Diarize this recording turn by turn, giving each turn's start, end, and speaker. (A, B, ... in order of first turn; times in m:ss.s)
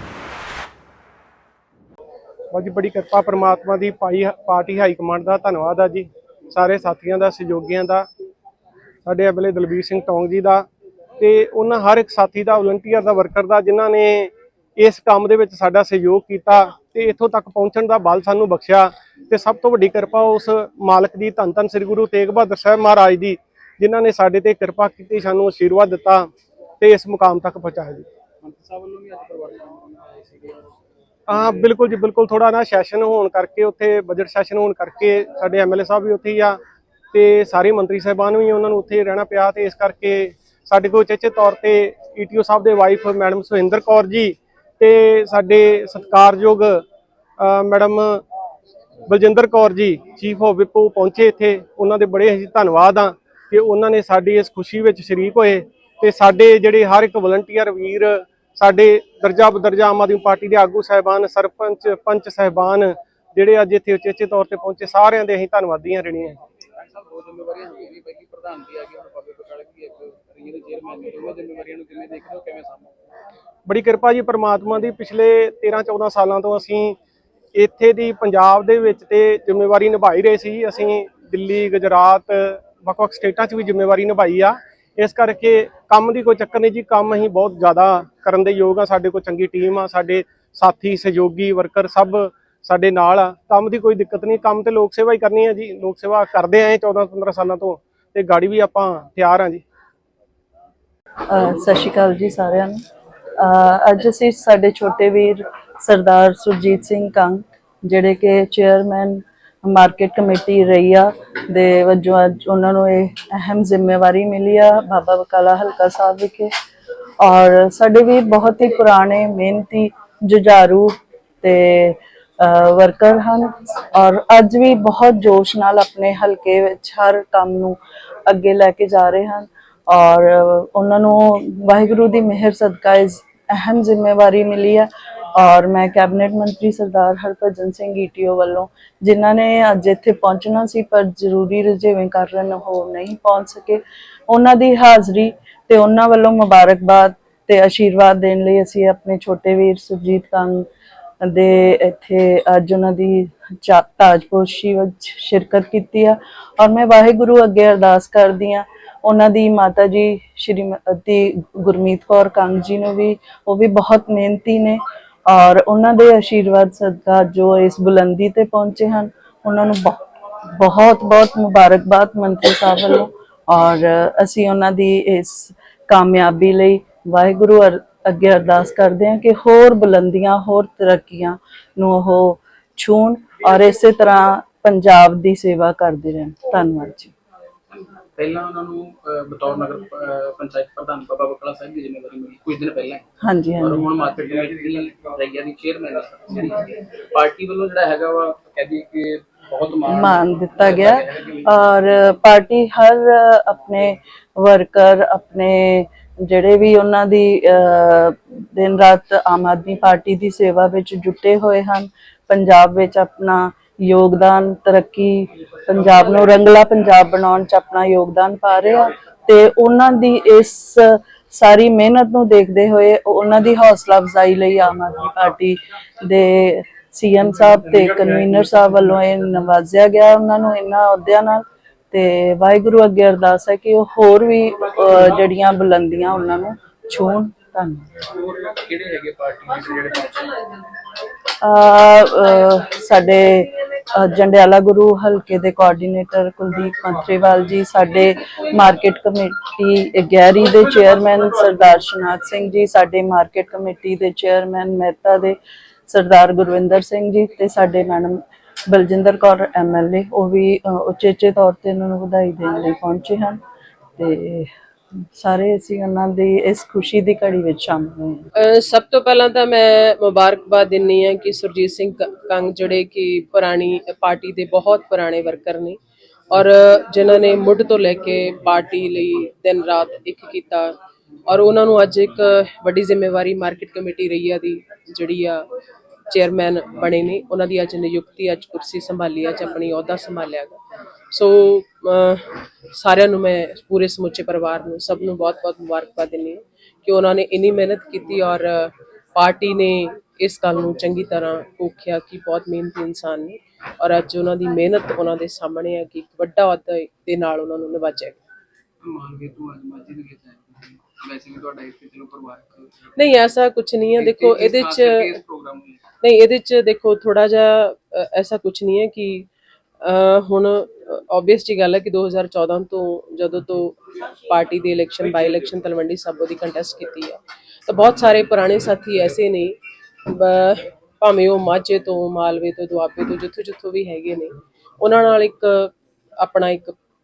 0:02.5-0:08.1 A
0:09.0-0:10.7 A
0:11.2-0:26.3 A
0:26.8-0:28.1 A
0:28.4-0:30.7 B
0:31.3-0:36.6 A
0:37.1-0:46.8 A
0:47.4-0:48.2 A
0:49.1-1:06.4 A
1:06.8-1:12.9 B
1:13.7-1:17.0 A
1:17.5-1:39.6 A
1:41.3-1:42.8 C
1:43.4-1:56.5 C
1:57.2-2:30.7 C
2:31.2-3:07.1 C
3:07.7-3:13.0 B
3:13.2-3:13.9 C
3:13.6-3:21.5 B
3:19.9-3:57.9 C
3:58.0-4:00.4 B
4:01.4-4:23.4 C
4:24.0-4:24.5 C
4:25.1-4:28.2 C
4:28.4-4:35.8 D
4:36.3-4:45.4 D
4:46.1-4:50.6 D
4:51.1-5:08.2 D
5:08.8-5:12.9 B
5:13.0-5:15.2 D
5:13.9-5:15.8 B
5:16.0-5:19.3 D
5:19.8-5:36.7 D